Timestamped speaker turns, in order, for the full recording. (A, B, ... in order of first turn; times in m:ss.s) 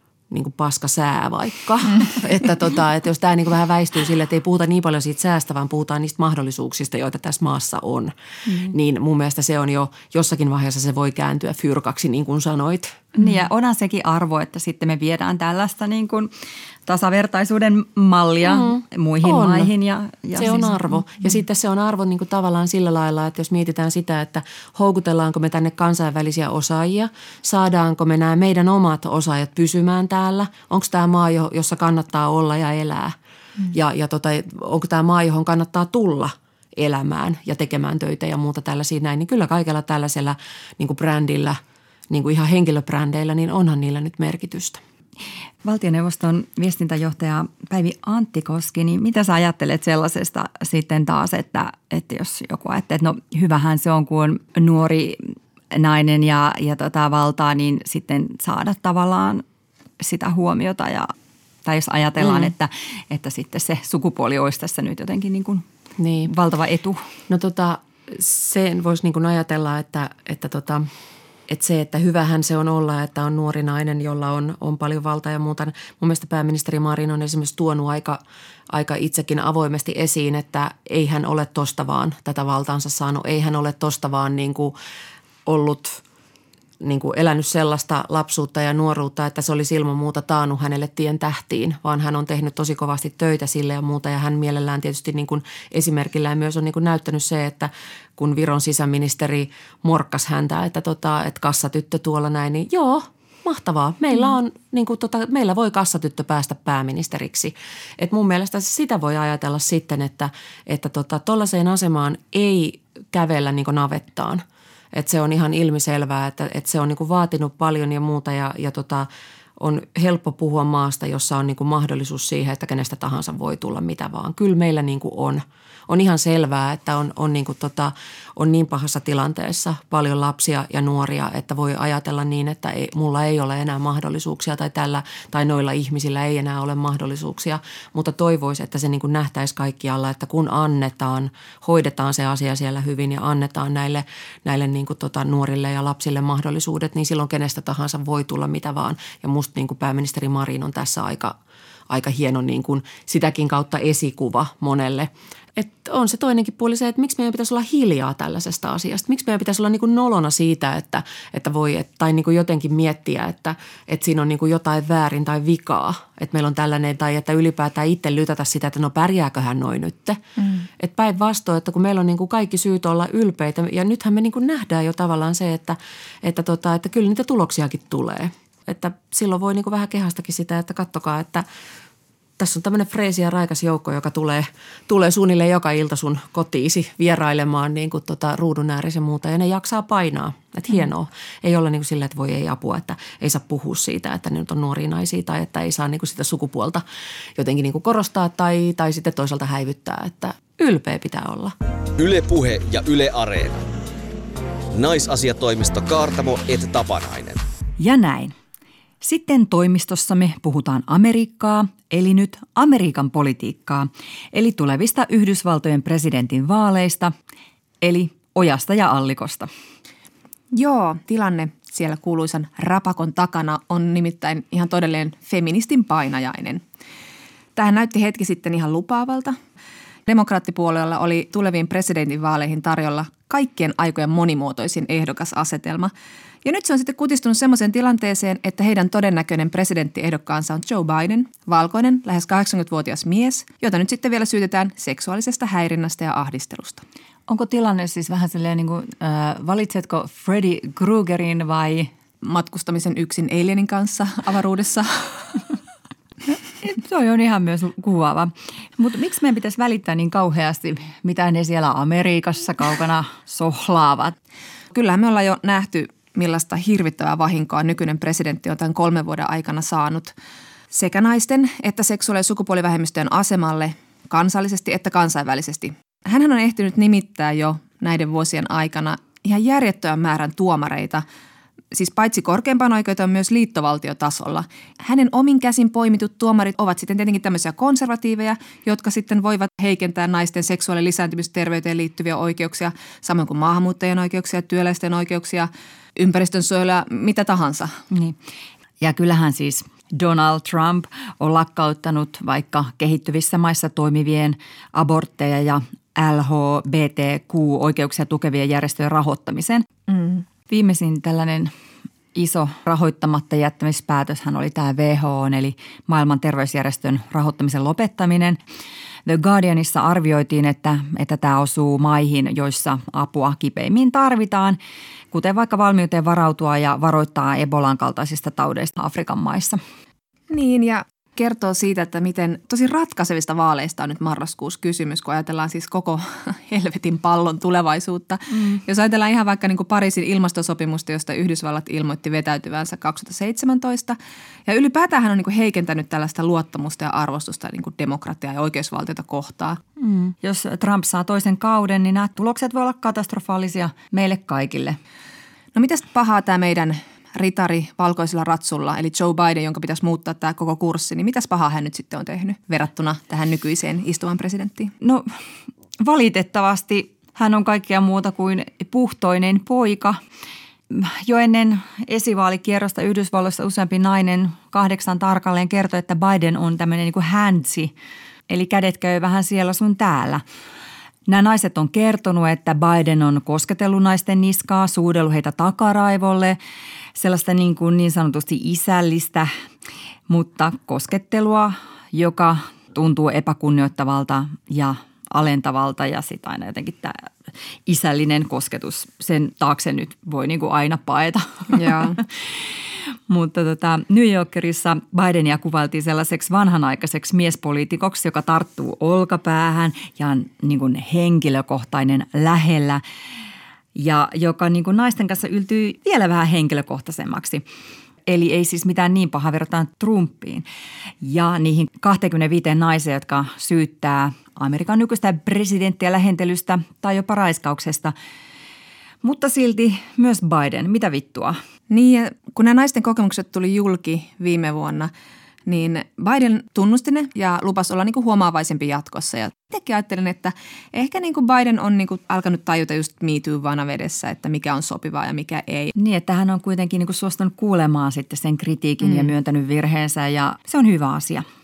0:00.3-0:13.1 A
0:13.1-0:16.3 B
0:16.9-0:20.8 B
0:18.4-0:19.7 A
0:20.3-0:33.1 A
0:33.7-0:41.6 A
0:42.1-0:44.8 A
0:45.6-0:59.4 B
1:00.0-1:01.1 B
1:01.6-1:05.6 B
1:02.2-1:02.5 A
1:06.0-1:06.3 A
1:06.2-1:07.1 B
1:07.3-1:10.9 A
1:11.5-1:24.7 A
1:25.4-1:26.0 A
1:26.8-1:54.4 A
1:54.9-1:59.1 A
1:59.6-2:31.4 A
2:31.9-3:01.4 A
3:02.4-3:16.8 A
3:17.4-3:21.5 A
3:22.0-3:23.6 C
3:24.7-3:27.4 C
3:27.8-3:28.4 B
3:29.0-3:37.1 B
3:37.8-3:39.5 B
3:40.5-3:46.6 D
3:47.6-3:49.4 D
3:50.1-3:55.9 D
3:56.4-4:06.8 D
4:07.3-4:11.9 B
4:12.2-4:15.4 D
4:16.6-4:24.2 B
4:24.7-4:30.1 D
4:30.7-4:41.0 D
4:41.7-4:57.7 D
4:57.9-4:58.2 B
4:58.8-5:09.7 B
5:09.9-5:10.2 D
5:10.5-5:11.5 B
5:12.1-5:18.4 B
5:19.0-5:24.6 B
5:25.1-5:29.6 B
5:30.3-5:49.6 D
5:49.8-5:54.8 B
5:55.5-6:04.7 D
6:04.8-6:05.1 B
6:05.8-6:10.0 B
6:10.7-6:17.7 B
6:18.3-6:20.2 B
6:21.0-6:26.4 B
6:27.0-6:29.3 B
6:30.1-6:37.1 B
6:37.6-6:42.5 B
6:41.6-6:42.0 D
6:43.1-6:52.8 B
6:53.7-6:57.4 B
6:58.1-7:00.4 B
7:01.0-7:07.9 B
7:09.0-7:11.4 B
7:11.7-7:14.9 D
7:15.5-7:25.7 D
7:25.7-7:31.3 B
7:28.8-7:29.1 D